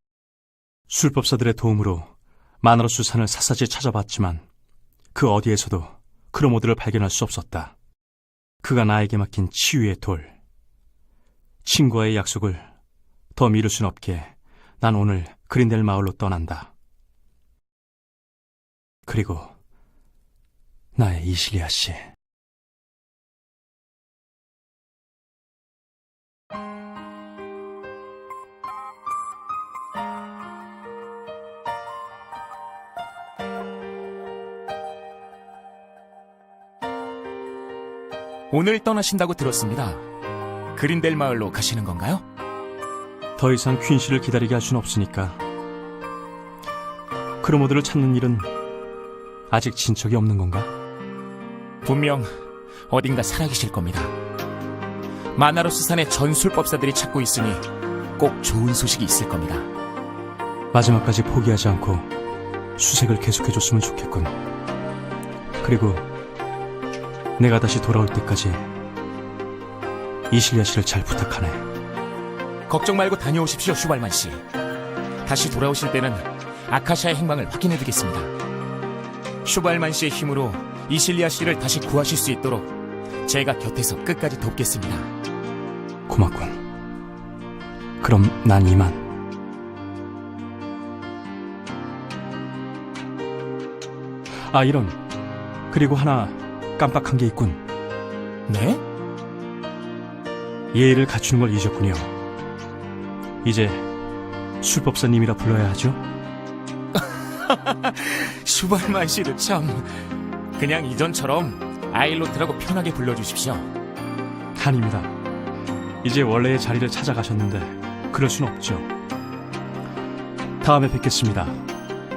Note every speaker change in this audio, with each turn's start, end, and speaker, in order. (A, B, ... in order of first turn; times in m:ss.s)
0:00.9-0:04.4 A
0:05.1-0:07.7 A
0:08.6-0:10.4 A
0:11.6-0:12.7 A
0:13.3-0:16.7 A
0:19.0-0:19.6 A
0:20.9-0:22.1 A
0:38.5-0:40.0 B
0:40.7-0:42.2 B
0:43.4-0:45.4 A
0:47.4-0:48.5 A
0:49.5-0:50.7 A
0:51.8-0:52.3 B
0:52.9-0:54.1 B
0:55.3-0:57.7 B
0:58.2-0:59.7 B
1:00.7-1:02.1 A
1:02.8-1:04.3 A
1:05.6-1:06.0 A
1:07.4-1:08.7 A
1:10.3-1:11.6 A
1:12.7-1:14.4 B
1:15.2-1:18.3 B
1:19.4-1:22.7 B
1:23.2-1:25.1 B
1:26.1-1:26.6 A
1:28.0-1:29.1 A
1:34.5-1:35.0 A
1:35.7-1:37.6 A
1:38.5-1:38.8 B
1:40.7-1:42.1 A
1:43.4-1:43.9 A
1:44.6-1:46.0 A
1:47.1-1:53.7 B
1:54.5-1:55.1 A
1:56.0-1:58.9 A
2:00.6-2:01.6 A